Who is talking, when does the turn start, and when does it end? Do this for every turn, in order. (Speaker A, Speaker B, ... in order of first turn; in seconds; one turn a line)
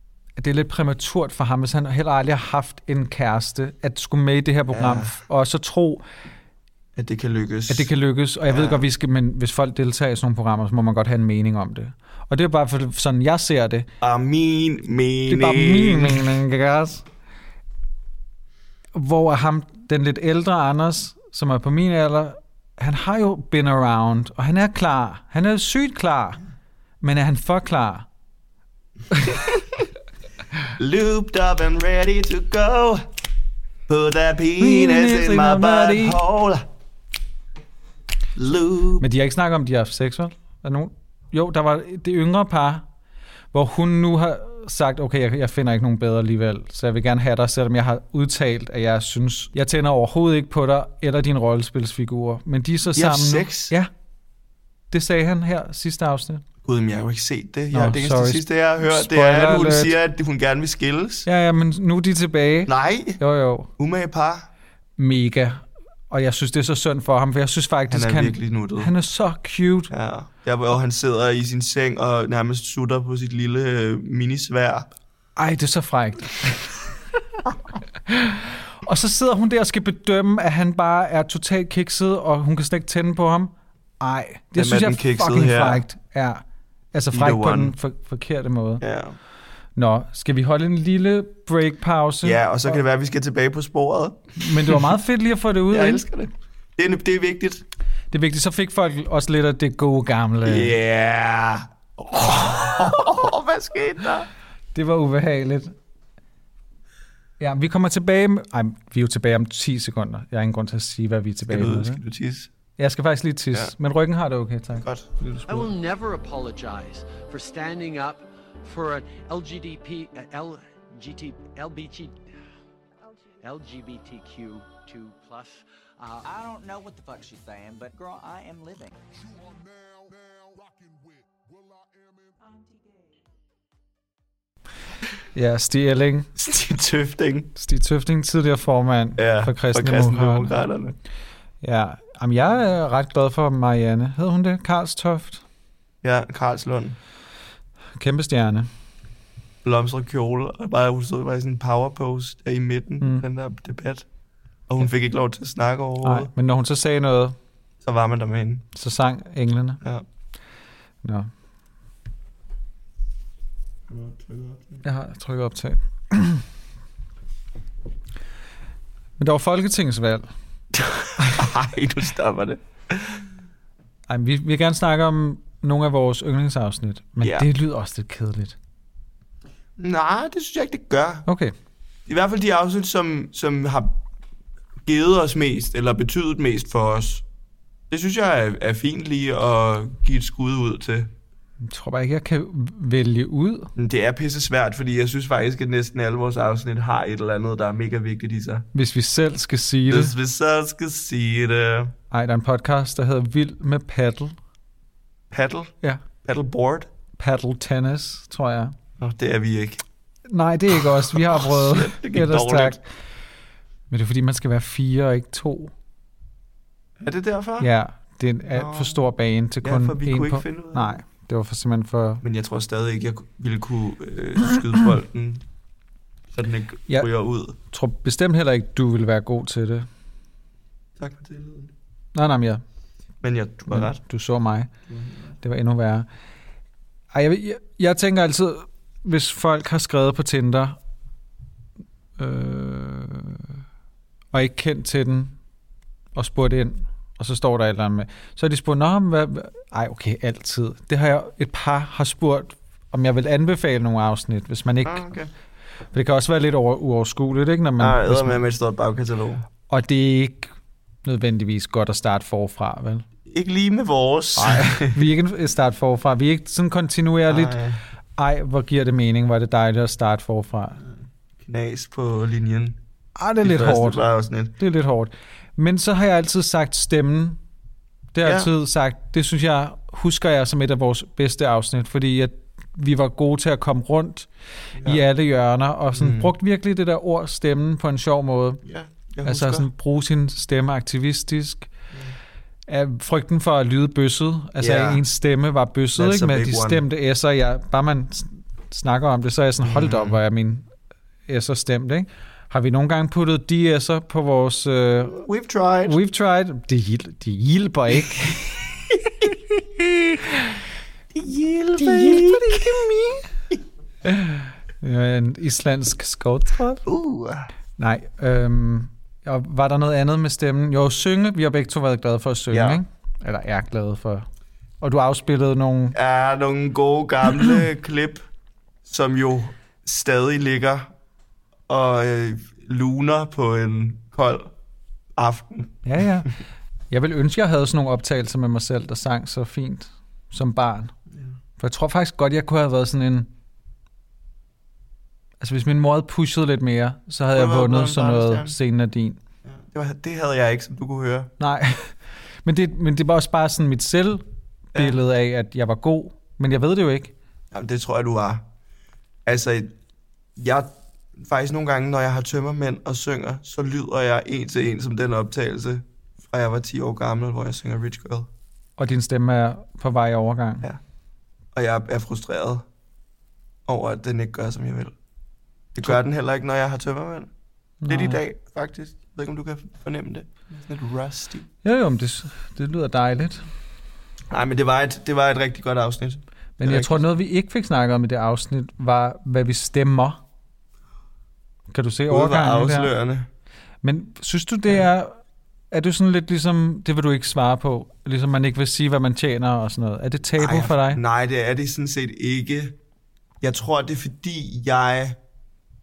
Speaker A: 0.4-6.0
Speaker B: 4.7-5.2
Speaker B: 7.0-7.9
Speaker A: 7.7-13.9
Speaker B: 8.5-8.9
Speaker B: 14.0-16.4
Speaker A: 15.3-17.1
Speaker A: 18.9-26.4
Speaker A: 27.0-28.1
Speaker B: 30.8-33.1
Speaker B: 33.9-36.7
Speaker A: 34.6-36.2
Speaker B: 38.4-39.0
Speaker A: 39.0-42.9
Speaker A: 43.5-53.9
Speaker B: 53.0-53.7
Speaker A: 54.9-56.4
Speaker B: 56.6-61.3
Speaker A: 57.7-60.0
Speaker A: 61.3-63.7
Speaker B: 62.7-63.2
Speaker B: 63.8-64.5
Speaker A: 65.0-69.9
Speaker B: 67.9-68.9
Speaker B: 69.9-74.9
Speaker A: 75.4-76.9
Speaker A: 78.1-88.8
Speaker B: 84.6-85.8
Speaker B: 87.1-87.8
Speaker B: 88.8-89.2
Speaker A: 89.8-92.4
Speaker B: 92.2-94.9
Speaker A: 94.4-96.0
Speaker B: 95.7-97.6
Speaker A: 98.1-100.7
Speaker B: 100.5-104.3
Speaker A: 104.8-105.7
Speaker A: 107.4-112.0
Speaker B: 111.5-112.5
Speaker A: 112.8-115.7
Speaker B: 114.8-115.1
Speaker C: 115.5-122.2
Speaker C: 123.4-126.2
Speaker D: 126.2-129.0
Speaker A: 135.3-136.3
Speaker B: 136.4-137.5
Speaker A: 137.6-140.7
Speaker B: 139.2-141.0
Speaker A: 141.6-145.4
Speaker B: 146.0-147.0
Speaker A: 148.0-148.7
Speaker B: 149.6-154.1
Speaker A: 153.0-153.3
Speaker B: 154.7-156.3
Speaker A: 156.0-157.4
Speaker B: 157.8-158.7
Speaker A: 158.7-159.8
Speaker A: 161.0-161.3
Speaker B: 163.9-164.8
Speaker A: 164.8-166.4
Speaker A: 169.2-170.3
Speaker B: 170.7-173.2
Speaker A: 174.1-178.6
Speaker B: 177.2-177.5
Speaker B: 179.8-181.3
Speaker A: 181.3-181.5
Speaker B: 182.1-184.0
Speaker B: 184.9-187.2
Speaker B: 187.9-191.1
Speaker A: 191.7-193.7
Speaker B: 193.8-198.7
Speaker A: 198.7-200.2
Speaker B: 199.9-201.9
Speaker A: 202.1-204.3
Speaker B: 205.3-206.9
Speaker A: 207.2-208.8
Speaker B: 209.0-209.8
Speaker A: 210.3-212.8
Speaker B: 211.1-212.8
Speaker A: 213.9-215.7
Speaker B: 217.0-217.7
Speaker A: 217.6-222.2
Speaker B: 218.5-219.0
Speaker B: 219.6-221.0
Speaker B: 222.2-225.4
Speaker B: 226.3-227.6
Speaker A: 227.7-229.9
Speaker B: 231.0-231.7
Speaker A: 232.2-232.6
Speaker B: 233.2-234.0
Speaker A: 233.7-234.7
Speaker B: 234.9-235.2
Speaker A: 235.4-236.1
Speaker A: 237.1-240.8
Speaker A: 242.2-243.6
Speaker A: 244.3-245.4
Speaker A: 246.2-255.1
Speaker B: 254.8-255.3
Speaker A: 255.9-258.4
Speaker B: 257.8-259.4
Speaker A: 259.7-260.5
Speaker A: 261.1-263.1
Speaker B: 263.3-265.0
Speaker A: 264.4-267.6
Speaker B: 267.3-267.8
Speaker A: 268.2-270.8
Speaker B: 271.4-272.8
Speaker A: 273.2-274.0
Speaker B: 273.4-274.5
Speaker A: 274.6-277.4
Speaker A: 278.1-284.3
Speaker B: 278.2-278.5
Speaker A: 284.8-288.6
Speaker B: 285.9-286.3
Speaker B: 288.6-289.7
Speaker A: 289.2-291.7
Speaker A: 292.7-300.7
Speaker B: 294.6-295.0
Speaker B: 296.0-296.8
Speaker B: 299.6-300.2
Speaker A: 301.3-305.2
Speaker B: 305.1-306.0
Speaker A: 305.9-308.6
Speaker B: 311.1-312.8
Speaker A: 311.8-313.3
Speaker A: 314.1-316.9
Speaker B: 316.9-317.5
Speaker A: 317.8-324.3
Speaker B: 322.5-322.8
Speaker A: 324.8-326.0
Speaker B: 325.9-328.2
Speaker B: 328.9-330.9
Speaker B: 331.7-334.5
Speaker B: 335.2-335.8
Speaker A: 335.8-336.4
Speaker A: 336.9-340.9
Speaker A: 341.6-343.3
Speaker A: 345.4-349.2
Speaker B: 347.3-348.6
Speaker B: 349.5-351.3
Speaker A: 351.4-351.9
Speaker A: 352.4-357.1
Speaker B: 357.5-358.5
Speaker B: 359.3-359.7
Speaker B: 360.4-368.3
Speaker A: 368.8-370.7
Speaker B: 371.5-372.7
Speaker B: 373.7-374.9
Speaker B: 375.7-377.3
Speaker A: 377.8-378.2
Speaker B: 377.9-381.5
Speaker A: 381.6-383.4
Speaker B: 384.3-387.1
Speaker A: 386.6-390.2
Speaker A: 391.7-392.9
Speaker B: 392.1-393.3
Speaker A: 393.8-395.2
Speaker A: 395.7-401.0
Speaker B: 400.4-402.8
Speaker B: 403.4-405.2